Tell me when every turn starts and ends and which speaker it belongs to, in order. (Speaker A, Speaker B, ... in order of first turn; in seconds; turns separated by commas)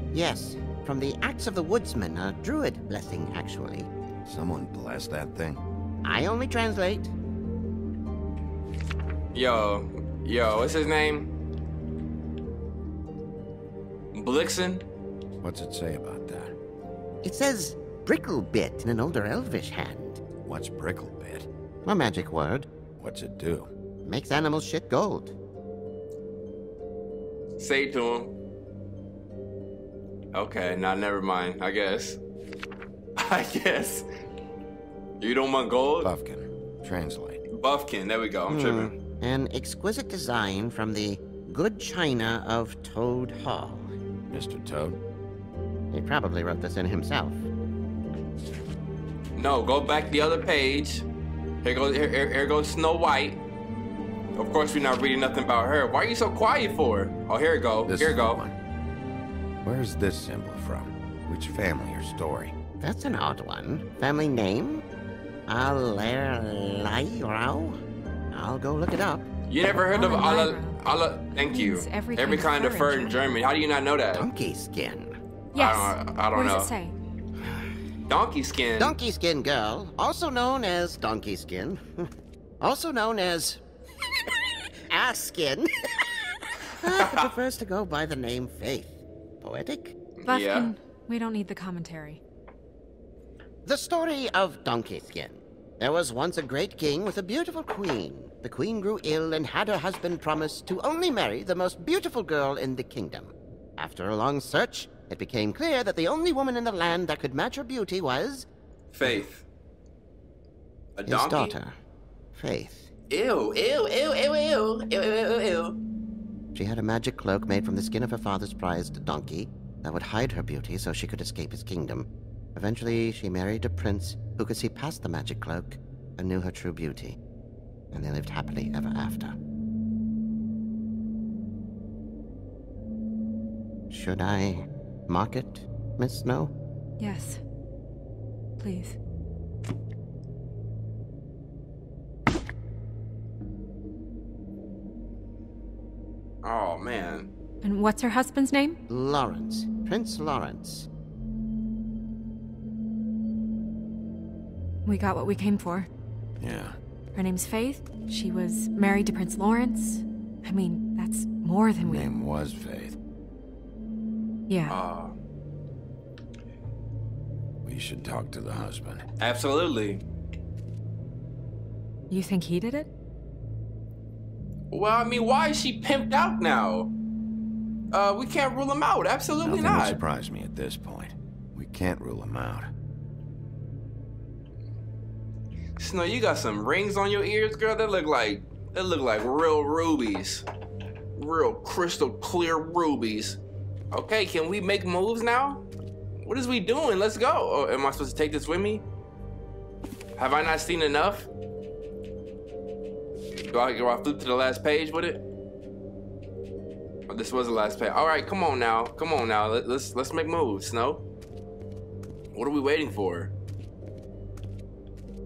Speaker A: 0.1-3.9, Speaker B: 4.2-5.6, Speaker A: 6.0-7.1, Speaker C: 9.3-11.3, Speaker C: 14.1-14.8, Speaker B: 15.4-16.5, Speaker A: 17.2-20.2, Speaker B: 20.4-21.5, Speaker A: 21.8-22.7, Speaker B: 23.0-23.7, Speaker A: 24.0-25.3, Speaker C: 27.6-28.3, Speaker C: 30.3-32.2, Speaker C: 33.2-34.0, Speaker C: 35.2-36.1, Speaker B: 36.0-37.4, Speaker C: 37.5-38.9, Speaker A: 38.5-43.9, Speaker B: 44.3-45.0, Speaker A: 45.9-47.4, Speaker C: 49.4-51.0, Speaker C: 51.6-53.4, Speaker C: 54.4-58.4, Speaker B: 57.8-58.6, Speaker B: 59.6-62.5, Speaker A: 62.8-64.8, Speaker A: 65.5-67.8, Speaker A: 68.3-69.3, Speaker C: 69.5-74.2, Speaker D: 69.9-70.8, Speaker D: 71.4-73.2, Speaker A: 74.2-75.2, Speaker C: 75.5-76.7, Speaker D: 75.5-76.9, Speaker C: 78.1-78.9, Speaker A: 78.8-82.1, Speaker A: 82.6-83.6, Speaker A: 84.9-85.8, Speaker A: 86.7-89.9, Speaker C: 90.2-90.7, Speaker D: 90.2-92.2, Speaker A: 93.6-108.5, Speaker C: 108.9-109.5, Speaker C: 111.0-111.5, Speaker A: 111.0-111.7, Speaker A: 112.3-112.9, Speaker C: 113.1-115.8, Speaker A: 116.5-127.2, Speaker A: 127.9-129.3, Speaker A: 133.9-136.5, Speaker D: 137.0-137.4, Speaker D: 138.6-138.9, Speaker C: 146.4-147.3, Speaker D: 147.6-148.8, Speaker A: 148.9-150.9, Speaker D: 154.8-155.9, Speaker B: 156.4-156.8, Speaker D: 157.1-162.1, Speaker B: 161.8-163.0, Speaker D: 164.5-164.8, Speaker C: 164.7-165.1, Speaker B: 167.6-169.0, Speaker C: 169.2-170.0, Speaker D: 172.1-172.9, Speaker C: 174.7-176.9, Speaker C: 177.9-180.0, Speaker B: 179.4-182.7, Speaker C: 185.8-190.4, Speaker C: 191.2-193.4, Speaker C: 193.9-195.6, Speaker C: 196.2-198.8, Speaker C: 200.2-201.3, Speaker C: 203.4-205.2, Speaker C: 207.1-211.0, Speaker C: 212.3-213.3